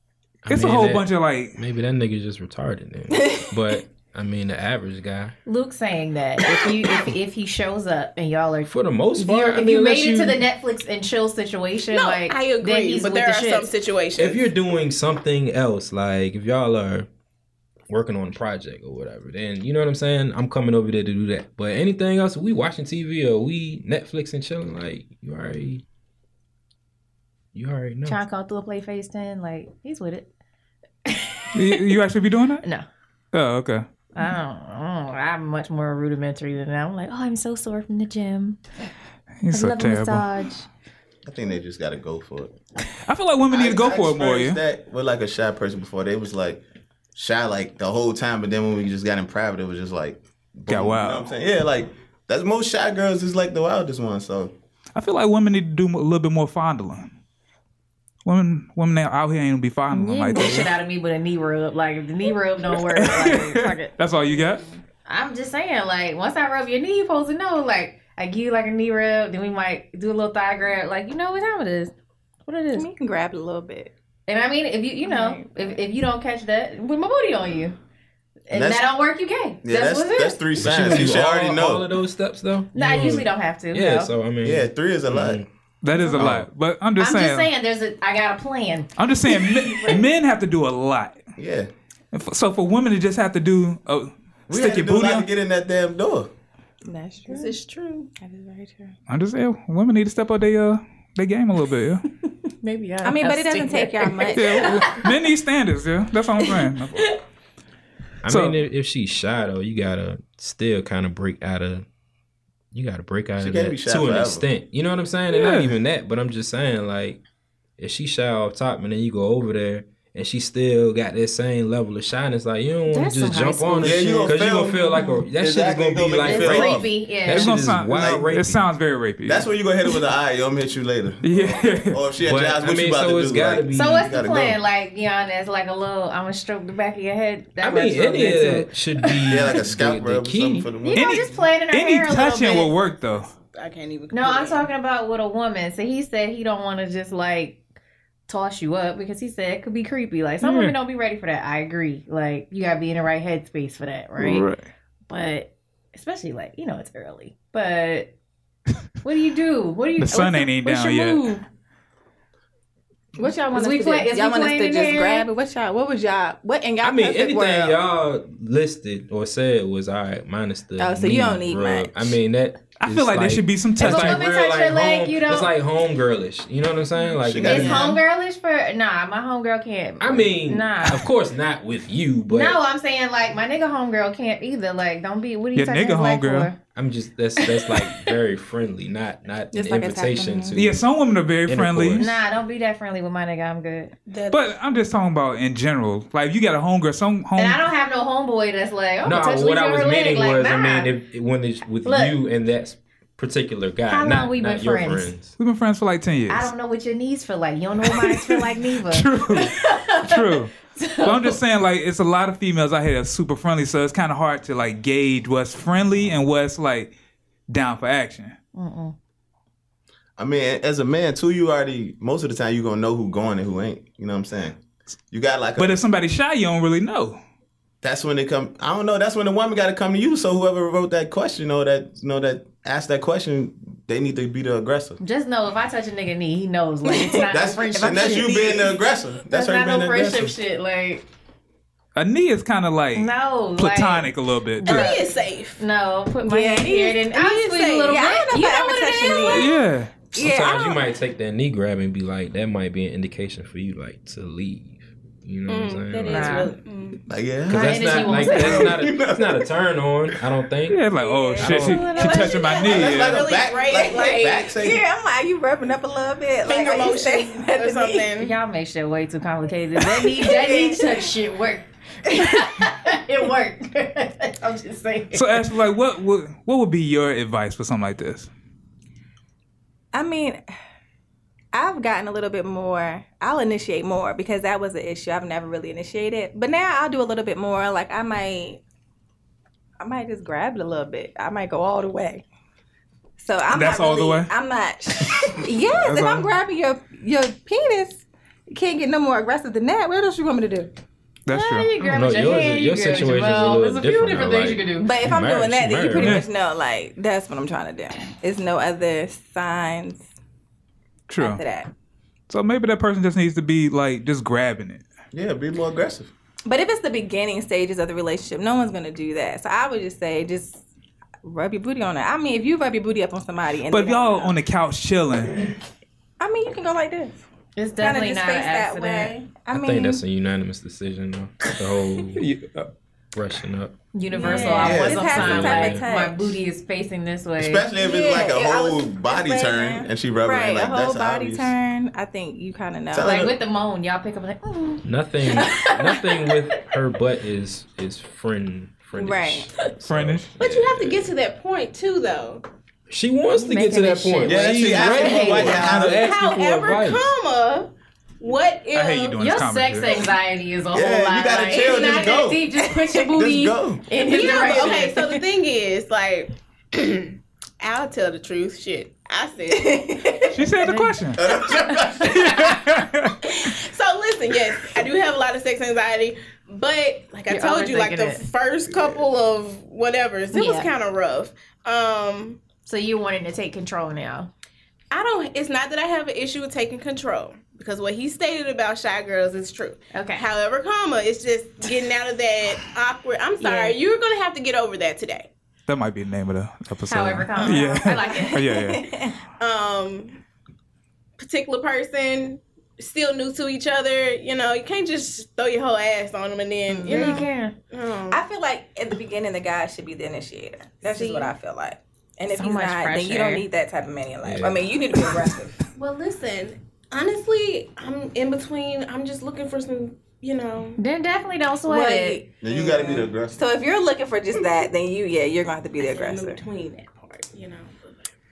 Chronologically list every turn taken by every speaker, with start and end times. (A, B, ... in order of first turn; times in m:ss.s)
0:00.4-0:05.4 A
0:00.5-0:01.6 B
0:03.1-0:03.7 C
0:05.4-0:13.7 D
0:08.6-0:10.4 A
0:11.9-0:14.5 E
0:14.2-0:17.1 A
0:17.9-0:25.8 A
0:27.5-0:28.2 A
0:28.0-0:30.3 D
0:31.0-0:31.9 D
0:31.5-0:32.6 B
0:33.3-0:33.8 B
0:34.1-0:38.6 D
0:39.4-0:40.3 B
0:39.5-0:40.7 D
0:41.2-0:42.6 F
0:43.0-0:44.6 B
0:43.5-0:46.6 F
0:47.1-0:54.5 F
0:50.7-0:51.3 B
0:54.9-0:57.1 B
0:58.2-1:00.8 B
0:59.9-1:03.9 D
1:02.8-1:04.6 B
1:05.0-1:11.9 D
1:12.5-1:12.9 D
1:12.7-1:13.9 C
1:14.3-1:17.8 D
1:15.0-1:15.8 C
1:18.5-1:20.4 D
1:18.5-1:18.9 F
1:19.6-1:21.9 F
1:20.6-1:25.5 A
1:22.7-1:24.1 D
1:24.4-1:25.4 F
1:25.8-1:27.5 B
1:26.1-1:26.4 A
1:26.2-1:26.4 F
1:27.0-1:30.0 D
1:29.0-1:31.2 B
1:31.4-1:31.7 F
1:32.1-1:35.2 B
1:34.5-1:36.3 F
1:36.8-1:37.6 C
1:37.3-1:38.1 E
1:38.2-1:39.0 C
1:39.1-1:42.0 B
1:42.6-1:45.1 D
1:43.0-1:44.8 C
1:44.3-1:47.2 B
1:48.2-1:51.9 A
1:48.3-1:48.6 B
1:52.7-1:57.2 A
1:53.4-1:54.5 F
1:55.3-1:55.8 B
1:57.8-2:08.6 A
2:02.9-2:04.4 D
2:03.8-2:06.9 F
2:04.9-2:05.2 D
2:06.2-2:07.5 D
2:07.3-2:09.5 B
2:07.9-2:08.3 F
2:09.2-2:14.6 F
2:11.2-2:12.0 B
2:12.2-2:14.1 A
2:13.7-2:19.5 D
2:17.6-2:20.7 A
2:19.3-2:21.3 F
2:20.8-2:22.7 D
2:20.9-2:23.3 B
2:23.4-2:24.7 E
2:24.1-2:27.6 D
2:28.3-2:34.5 D
2:30.4-2:30.7 B
2:34.2-2:34.7 B
2:35.1-2:38.1 D
2:39.0-2:41.4 D
2:40.0-2:41.3 B
2:40.6-2:41.3 C
2:43.2-2:47.8 C
2:43.2-2:45.3 D
2:46.8-2:57.9 A
2:50.8-2:52.2 C
2:52.8-2:54.2 B
2:53.8-2:55.5 D
2:57.2-2:58.0 F
2:57.4-3:01.1 D
3:00.0-3:02.6 A
3:02.3-3:06.6 D
3:05.6-3:06.5 B
3:06.7-3:10.8 A
3:07.4-3:08.1 D
3:09.5-3:10.6 C
3:10.6-3:12.1 B
3:11.4-3:12.1 A
3:12.0-3:13.9 D
3:14.1-3:14.5 C
3:14.1-3:14.5 E
3:14.3-3:17.6 B
3:17.4-3:20.9 D
3:19.0-3:25.4 A
3:21.8-3:22.2 D
3:23.9-3:25.1 D
3:25.4-3:26.5 B
3:26.3-3:31.4 D
3:27.9-3:36.9 B
3:37.5-3:38.4 B
3:38.6-3:38.9 D
3:40.2-3:44.6 F
3:45.1-3:45.8 F
3:45.6-3:47.2 B
3:47.8-3:55.0 F
3:55.0-3:58.6 D
3:56.9-3:58.8 C
3:57.3-4:00.3 F
3:59.3-4:01.0 D
4:02.0-4:05.0 B
4:02.9-4:05.0 D
4:04.6-4:05.6 E
4:05.6-4:09.5 D
4:06.2-4:06.9 C
4:06.6-4:08.0 E
4:07.9-4:11.0 C
4:09.3-4:10.1 B
4:10.1-4:16.5 A
4:15.5-4:17.0 E
4:16.1-4:16.5 D
4:17.1-4:19.5 F
4:17.5-4:21.9 A
4:17.5-4:18.8 D
4:20.7-4:23.2 B
4:21.0-4:21.8 C
4:21.6-4:22.6 D
4:21.9-4:24.5 E
4:22.6-4:24.8 F
4:24.3-4:28.1 C
4:26.4-4:28.3 E
4:28.2-4:35.4 D
4:29.8-4:31.1 C
4:35.1-4:38.3 B
4:39.9-4:40.4 C
4:41.5-4:48.6 C
4:49.8-4:52.2 C
4:53.2-5:00.7 C
4:53.5-4:54.3 B
4:55.2-4:56.3 B
5:01.2-5:01.7 B
5:01.3-5:04.9 D
5:01.8-5:06.2 A
5:04.8-5:10.0 C
5:06.0-5:06.3 B
5:11.1-5:11.4 B
5:11.2-5:11.7 C
5:12.3-5:14.8 B
5:15.1-5:16.1 F
5:16.4-5:20.6 C
5:21.2-5:24.4 C
5:23.7-5:25.5 B
5:26.2-5:27.2 C
5:27.6-5:29.1 D
5:27.8-5:30.0 C
5:29.5-5:32.3 A
5:32.1-5:32.7 B
5:33.1-5:33.7 A
5:33.9-5:37.7 D
5:34.1-5:36.4 C
5:34.2-5:34.5 E
5:34.6-5:35.9 A
5:34.6-5:35.2 F
5:37.4-5:41.5 F
5:37.8-5:43.1 C
5:42.9-5:43.4 F
5:43.0-5:46.0 D
5:44.8-5:51.1 A
5:49.0-5:49.5 C
5:49.8-5:50.4 B
5:50.4-5:52.4 E
5:52.9-5:57.1 A
5:53.4-5:55.8 D
5:54.2-5:56.1 F
5:55.5-5:59.3 E
5:58.7-6:00.1 B
5:59.2-6:05.2 D
6:00.7-6:03.9 F
6:01.5-6:02.3 E
6:04.0-6:10.3 E
6:09.5-6:10.4 C
6:10.3-6:11.2 B
6:10.6-6:11.1 D
6:11.2-6:12.4 F
6:12.0-6:13.3 B
6:13.2-6:22.4 E
6:17.3-6:18.2 D
6:18.7-6:19.1 F
6:20.3-6:20.7 D
6:22.6-6:24.3 D
6:24.9-6:35.3 E
6:29.9-6:30.2 D
6:33.4-6:33.7 D
6:35.7-6:38.9 B
6:36.9-6:38.6 D
6:37.4-6:39.2 C
6:39.4-6:40.2 E
6:41.2-6:48.2 E
6:46.7-6:47.2 C
6:46.8-6:47.6 D
6:48.1-6:55.6 C
6:50.9-6:51.3 E
6:52.3-6:53.4 D
6:54.2-6:54.7 A
6:55.8-7:00.8 E
7:00.8-7:02.2 D
7:01.6-7:06.4 C
7:02.4-7:03.4 F
7:02.7-7:03.0 E
7:05.8-7:08.1 E